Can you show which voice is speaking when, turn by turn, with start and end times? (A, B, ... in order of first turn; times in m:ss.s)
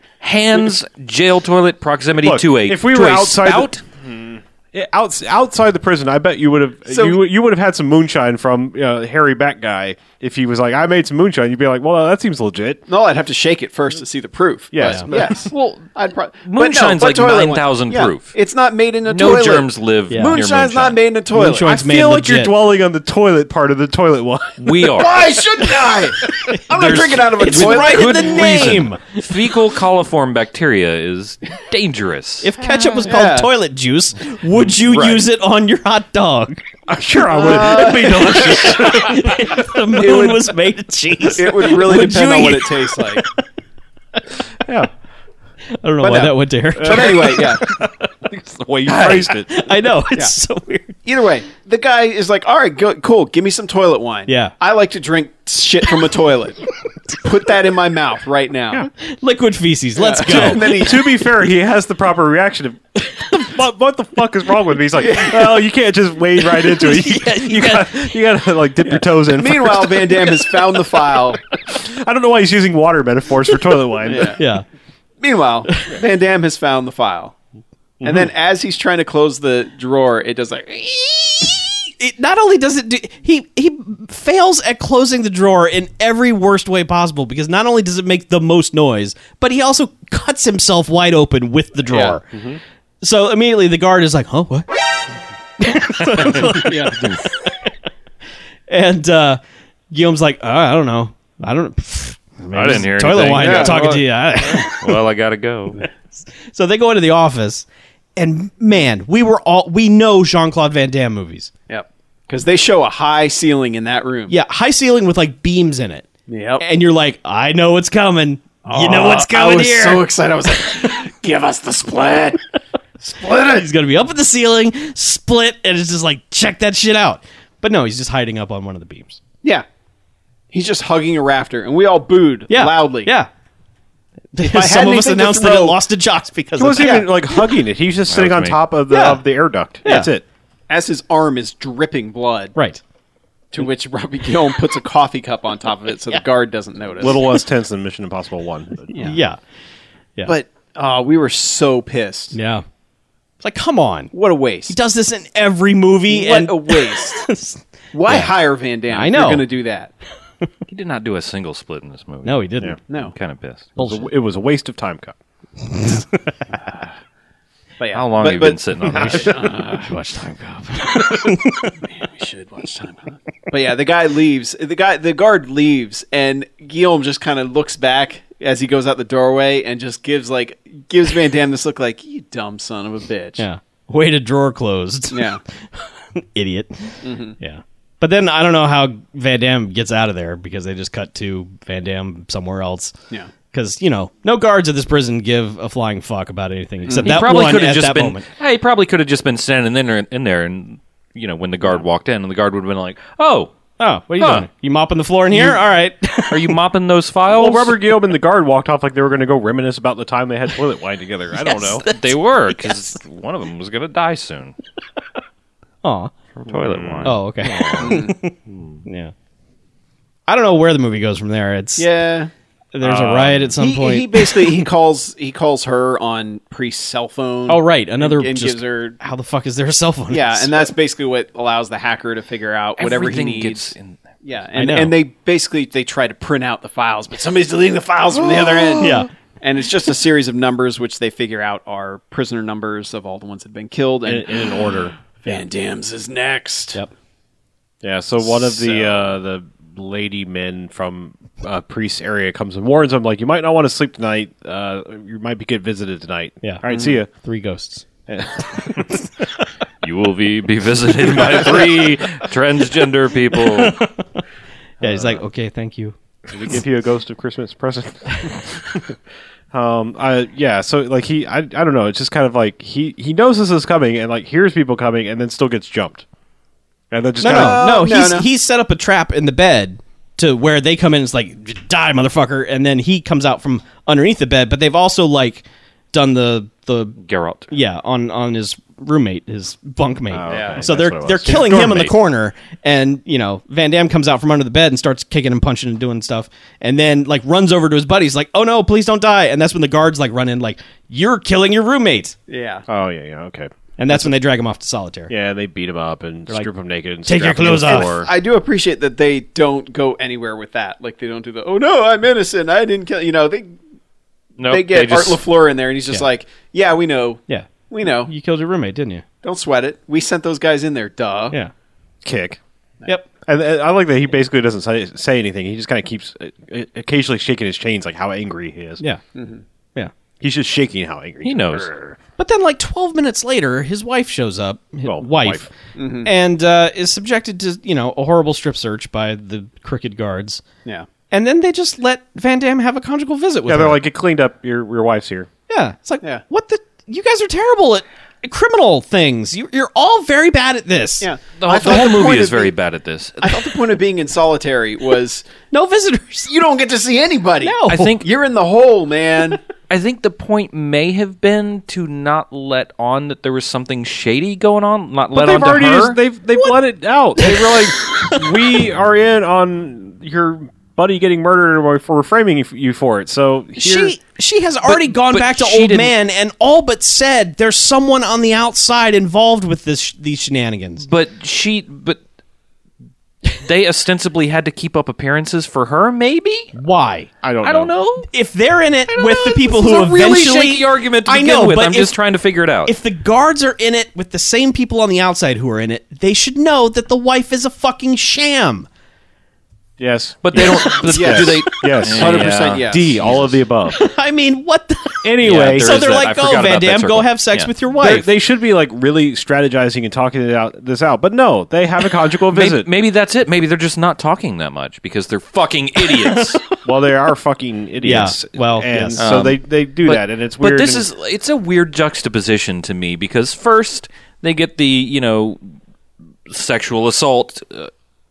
0:00.2-0:03.8 A
0:02.2-0:12.8 B
0:06.9-0:07.2 C
0:12.9-0:21.7 C
0:14.7-0:15.3 B
0:14.8-0:15.1 D
0:15.1-0:18.4 A
0:19.1-0:21.0 A
0:20.1-0:20.4 D
0:21.3-0:22.5 D
0:21.6-0:26.2 B
0:24.6-0:25.3 A
0:24.9-0:28.8 C
0:26.7-0:32.5 A
0:27.3-0:29.3 D
0:32.4-0:36.6 D
0:33.0-0:33.5 C
0:34.9-0:35.2 A
0:36.9-0:39.7 B
0:37.3-0:38.9 C
0:37.4-0:43.4 D
0:39.9-0:40.6 C
0:41.2-0:43.2 C
0:44.6-0:44.9 B
0:45.8-0:47.9 D
0:46.0-0:47.6 C
0:46.8-0:49.7 B
0:48.9-0:51.0 D
0:51.0-0:58.9 C
0:54.3-0:54.5 D
0:59.0-1:00.8 D
1:00.0-1:01.2 C
1:00.3-1:10.5 B
1:05.0-1:05.5 C
1:06.5-1:08.1 D
1:08.8-1:11.4 C
1:11.5-1:14.4 B
1:14.1-1:14.4 C
1:14.4-1:14.6 D
1:15.2-1:17.4 C
1:15.7-1:16.0 D
1:18.0-1:18.3 B
1:18.0-1:21.7 C
1:22.0-1:32.3 D
1:31.9-1:32.2 C
1:32.3-1:32.6 B
1:33.0-1:34.7 D
1:35.6-1:37.7 D
1:36.3-1:37.2 A
1:36.5-1:37.1 C
1:38.7-1:39.4 D
1:39.9-1:45.0 D
1:42.5-1:45.8 A
1:43.4-1:43.8 C
1:46.4-1:47.7 D
1:48.2-1:51.5 D
1:51.7-1:54.4 C
1:54.3-2:00.9 D
1:56.3-1:56.6 C
1:58.6-2:02.4 C
2:03.0-2:03.6 C
2:03.2-2:09.2 D
2:10.5-2:13.1 C
2:12.5-2:13.3 D
2:14.3-2:17.1 D
2:14.4-2:15.8 C
2:16.6-2:20.2 B
2:16.8-2:17.1 C
2:18.1-2:18.6 A
2:18.9-2:19.2 D
2:19.8-2:20.1 D
2:20.7-2:22.6 C
2:22.6-2:22.8 D
2:23.5-2:27.2 C
2:27.0-2:28.9 B
2:27.0-2:27.4 D
2:28.9-2:29.2 C
2:29.0-2:29.4 D
2:30.2-2:32.4 C
2:32.3-2:32.6 D
2:33.4-2:34.1 D
2:34.1-2:34.8 C
2:34.7-2:38.3 D
2:36.1-2:37.3 C
2:37.9-2:39.9 C
2:38.9-2:39.5 D
2:40.7-2:43.7 A
2:42.2-2:42.8 D
2:42.9-2:43.1 C
2:43.8-2:44.1 D
2:43.8-2:45.2 B
2:45.7-2:46.2 D
2:47.8-2:49.8 C
2:47.9-2:49.4 A
2:48.9-2:51.8 D
2:51.8-3:03.4 C
3:03.4-3:13.0 D
3:05.1-3:05.4 C
3:07.0-3:07.4 C
3:13.5-3:18.2 D
3:16.8-3:17.2 C
3:17.0-3:23.6 A
3:23.8-3:26.6 D
3:24.2-3:24.5 A
3:26.3-3:27.8 A
3:27.3-3:31.8 B
3:31.4-3:32.8 D
3:31.8-3:34.6 A
3:35.8-3:36.1 D
3:36.4-3:38.0 A
3:36.5-3:37.8 B
3:37.0-3:39.1 D
3:37.8-3:38.1 C
3:38.5-3:38.8 B
3:40.3-3:41.9 D
3:41.8-3:42.3 C
3:42.7-3:44.7 D
3:42.8-3:43.5 B
3:43.6-3:49.0 C
3:47.5-3:50.7 D
3:50.1-4:04.6 C
3:52.8-3:54.0 A
3:54.6-3:55.0 D
3:58.2-3:58.9 B
3:58.8-3:59.1 D
4:04.0-4:05.0 B
4:05.2-4:06.8 C
4:07.8-4:17.1 B
4:08.2-4:09.1 C
4:16.4-4:17.8 D
4:16.7-4:17.0 C
4:18.1-4:19.0 B
4:18.6-4:19.0 D
4:19.8-4:23.8 A
4:21.3-4:21.6 B
4:23.4-4:24.2 D
4:24.8-4:25.2 B
4:24.8-4:26.0 D
4:26.3-4:29.0 B
4:29.5-4:36.0 B
4:36.9-4:37.7 B
4:37.2-4:47.0 D
4:37.2-4:38.3 C
4:47.0-4:47.5 A
4:47.5-5:02.2 D
4:50.1-4:51.6 B
4:50.3-4:50.6 C
4:51.2-4:51.9 A
5:02.3-5:02.6 C
5:02.7-5:04.1 B
5:03.8-5:05.1 D
5:05.1-5:08.1 B
5:07.0-5:07.9 D
5:07.7-5:13.6 C
5:14.4-5:15.2 A
5:14.5-5:18.1 C
5:17.3-5:19.0 D
5:19.2-5:21.4 C
5:22.0-5:22.4 B
5:23.3-5:28.8 B
5:29.2-5:29.4 C
5:30.2-5:32.0 B
5:31.2-5:31.7 A
5:32.2-5:35.5 D
5:34.8-5:35.5 B
5:35.8-5:36.1 C
5:36.0-5:40.4 D
5:41.1-5:43.8 D
5:43.5-5:45.3 B
5:45.5-5:51.1 D
5:51.0-5:52.5 C
5:51.4-5:53.5 A
5:53.2-5:55.3 C
5:55.5-5:56.3 D
5:56.3-5:59.4 C
5:57.4-5:58.0 D
5:57.7-5:58.1 A
5:59.7-6:06.0 A
6:05.1-6:14.0 B
6:07.2-6:08.3 D
6:13.6-6:20.9 D
6:14.6-6:15.9 A
6:20.8-6:22.0 A
6:23.3-6:26.5 A
6:26.6-6:27.1 D
6:27.2-6:27.8 B
6:27.4-6:28.1 A
6:28.1-6:32.0 D
6:28.9-6:32.7 A
6:32.6-6:38.7 D
6:39.8-6:43.8 B
6:40.2-6:43.2 A
6:40.4-6:40.8 D
6:40.9-6:43.4 C
6:43.7-6:48.1 D
6:45.0-6:45.8 B
6:45.2-6:47.5 A
6:47.7-6:52.7 B
6:52.3-6:56.4 A
6:55.8-6:56.6 D
6:56.6-7:00.9 B
6:57.8-6:59.0 D
6:59.0-7:05.4 A
7:06.3-7:07.7 A